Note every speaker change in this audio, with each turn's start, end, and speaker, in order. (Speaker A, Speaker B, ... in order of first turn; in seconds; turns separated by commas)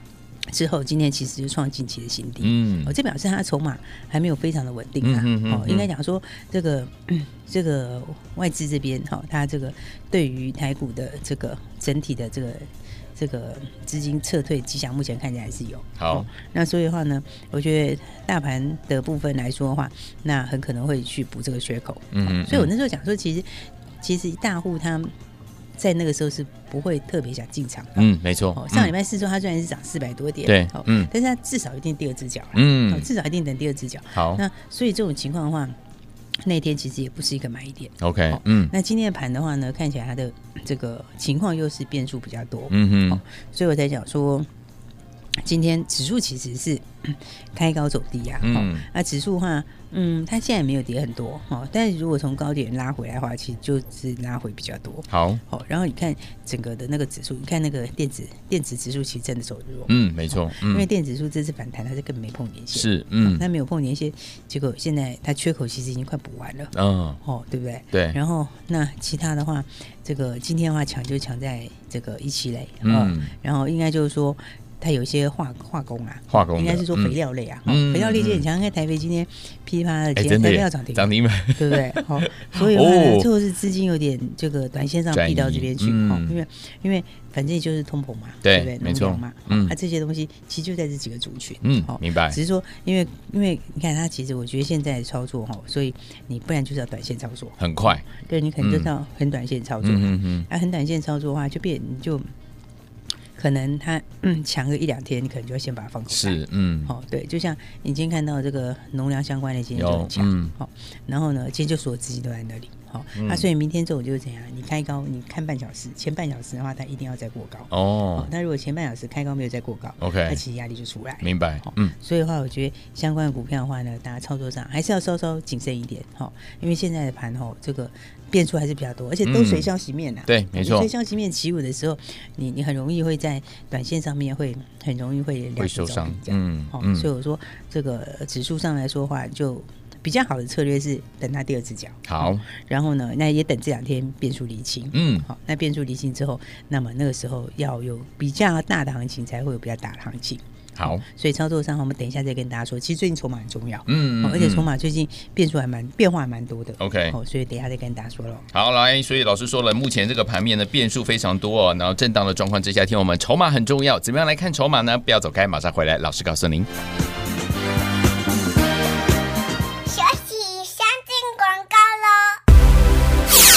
Speaker A: 0.5-23.5, Speaker B: 2.4-2.9, Speaker B: 5.0-5.9, Speaker B: 16.0-16.3, Speaker B: 22.1-22.7, Speaker A: 24.0-25.1, Speaker A: 25.8-35.7, Speaker B: 28.0-28.9, Speaker B: 30.4-31.1, Speaker B: 32.5-33.1, Speaker B: 34.1-34.4, Speaker A: 36.4-44.5, Speaker B: 38.0-38.7, Speaker B: 42.7-43.2, Speaker A: 45.4-102.3, Speaker B: 48.4-48.8, Speaker B: 55.1-55.4, Speaker B: 59.9-60.9, Speaker B: 62.7-63.4, Speaker B: 66.7-67.2, Speaker B: 67.9-68.2, Speaker B: 72.8-73.3, Speaker B: 76.3-78.4, Speaker B: 80.2-83.3, Speaker B: 85.1-86.3, Speaker B: 88.4-89.7, Speaker B: 91.6-92.4, Speaker B: 97.6-98.0, Speaker B: 98.6-98.9, Speaker B: 99.8-100.5, Speaker A: 103.3-158.5, Speaker B: 106.1-106.9, Speaker B: 109.8-110.5, Speaker B: 113.1-113.5, Speaker B: 117.7-118.3, Speaker B: 120.0-120.4, Speaker B: 121.2-121.9, Speaker B: 129.2-129.7, Speaker B: 130.3-130.9, Speaker B: 135.6-137.1, Speaker B: 142.1-142.4, Speaker B: 144.9-145.2, Speaker B: 150.8-151.0, Speaker B: 153.9-154.7, Speaker B: 156.8-157.2, Speaker B: 158.5-166.7, Speaker C: 169.9-172.4